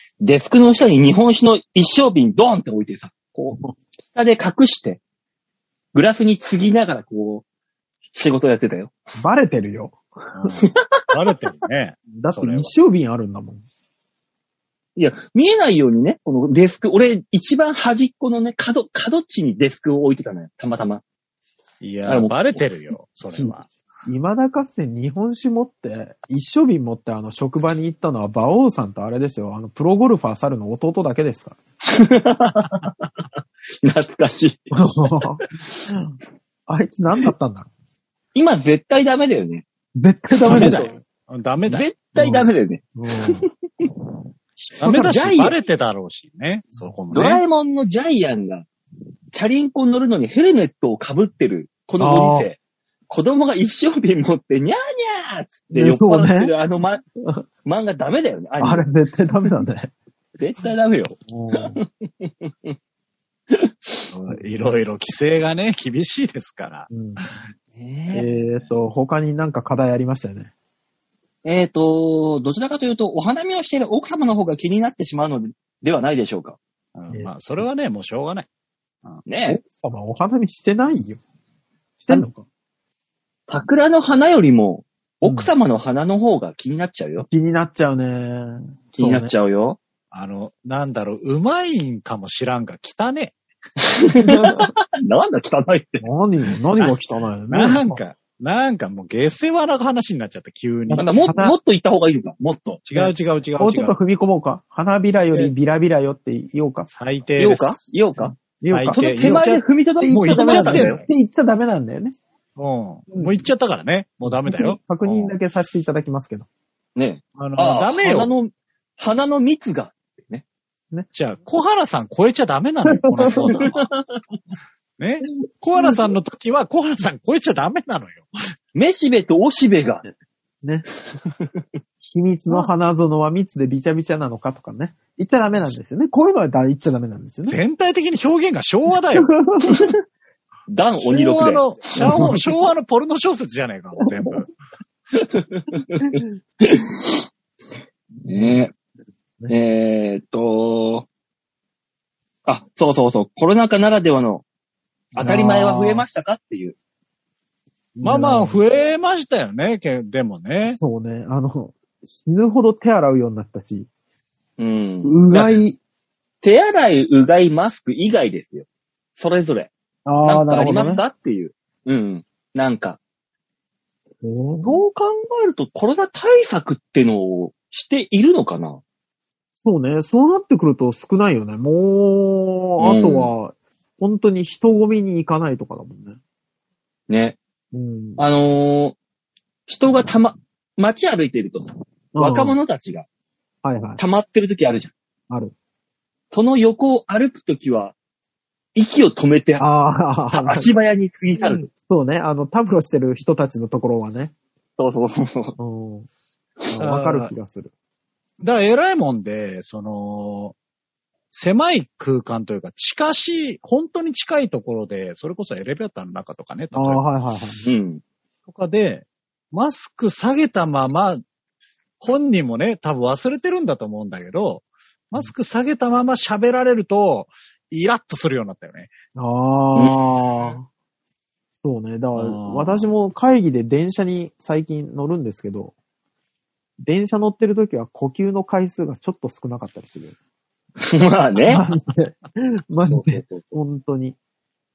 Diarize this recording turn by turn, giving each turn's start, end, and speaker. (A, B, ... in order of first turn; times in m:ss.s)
0:00.2-0:05.0 A
0:05.9-0:07.4 A
0:08.1-0:08.9 A
0:09.2-0:10.5 B
0:10.3-0:12.7 C
0:10.6-0:11.0 A
0:12.1-0:13.6 B
0:15.0-0:21.0 A
0:21.8-0:23.7 C
0:22.0-0:22.6 A
0:24.0-0:31.6 B
0:31.8-0:33.2 A
0:33.8-0:35.8 A
0:34.7-0:36.2 B
0:36.7-0:37.7 B
0:38.3-0:39.6 A
0:40.0-0:40.9 B
0:40.4-0:41.0 A
0:40.5-0:41.9 C
0:41.7-0:43.8 A
0:42.2-0:43.5 B
0:44.6-0:45.2 B
0:44.8-0:47.4 C
0:44.9-0:45.6 A
0:47.1-0:48.7 A
0:49.3-0:52.6 A
0:52.0-0:52.5 B
0:53.1-0:57.0 A
0:55.7-0:56.5 B
0:57.6-0:58.9 A
0:58.6-0:59.9 B
1:00.4-1:02.7 A
1:01.3-1:01.8 B
1:03.5-1:04.1 A
1:04.1-1:07.3 C
1:06.9-1:07.2 B
1:07.7-1:08.2 A
1:08.1-1:10.5 B
1:11.4-1:16.6 A
1:16.9-1:18.5 C
1:19.2-1:19.6 A
1:19.5-1:21.2 B
1:22.0-1:22.4 B
1:23.5-1:27.3 A
1:25.2-1:25.5 B
1:27.2-1:29.3 B
1:29.0-1:29.8 A
1:30.1-1:33.4 C
1:33.8-1:36.0 A
1:34.2-1:34.7 B
1:36.0-1:38.0 B
1:37.5-1:41.1 C
1:40.9-1:41.6 B
1:41.0-1:42.8 A
1:42.8-1:44.0 C
1:42.9-1:46.9 B
1:46.9-1:47.8 C
1:47.4-1:48.4 A
1:48.2-1:49.4 B
1:48.7-1:51.0 C
1:48.9-1:51.0 A
1:50.0-1:52.2 B
1:52.6-1:55.3 C
1:53.1-1:53.4 B
1:54.2-1:56.5 B
1:57.0-2:00.4 A
1:57.4-1:58.3 C
2:01.1-2:03.9 C
2:02.9-2:03.6 B
2:03.3-2:04.2 A
2:05.0-2:08.3 C
2:08.7-2:10.0 A
2:12.0-2:17.6 B
2:17.5-2:19.4 C
2:19.2-2:19.8 B
2:19.6-2:19.9 A
2:20.7-2:22.4 A
2:21.0-2:24.5 C
2:22.0-2:22.4 B
2:24.0-2:24.4 B
2:25.2-2:27.2 A
2:28.2-2:28.7 A
2:29.5-2:31.1 A
2:32.4-2:34.4 A
2:35.2-2:36.0 B
2:35.2-2:36.8 A
2:38.0-2:38.6 B
2:38.0-2:40.8 C
2:40.6-2:43.9 B
2:44.6-2:45.6 A
2:45.0-2:45.8 B
2:46.4-2:49.7 A
2:50.0-2:51.0 B
2:50.2-2:53.0 A
2:54.2-2:54.8 B
2:54.6-2:58.8 A
2:59.6-3:06.2 B
3:02.8-3:03.3 A
3:07.1-3:07.4 A
3:07.7-3:08.2 B
3:08.2-3:09.0 A
3:09.7-3:13.0 A
3:12.1-3:12.6 B
3:13.6-3:14.0 B
3:14.0-3:14.9 A
3:16.3-3:17.9 A
3:18.7-3:19.6 A
3:19.6-3:20.7 B
3:20.3-3:21.6 A
3:21.4-3:24.3 B
3:24.8-3:25.6 A
3:25.6-3:26.1 B
3:26.7-3:27.7 B
3:26.8-3:27.3 C
3:28.4-3:30.5 C
3:31.3-3:37.1 C
3:36.7-3:37.6 B
3:37.6-3:38.0 A
3:38.5-3:41.2 C
3:42.0-3:48.9 C
3:49.1-3:50.6 B
3:49.7-3:50.5 A
3:51.6-3:55.7 B
3:52.1-3:52.9 C
3:56.8-4:00.2 B
4:00.8-4:01.6 A
4:01.5-4:04.2 B
4:02.9-4:03.4 A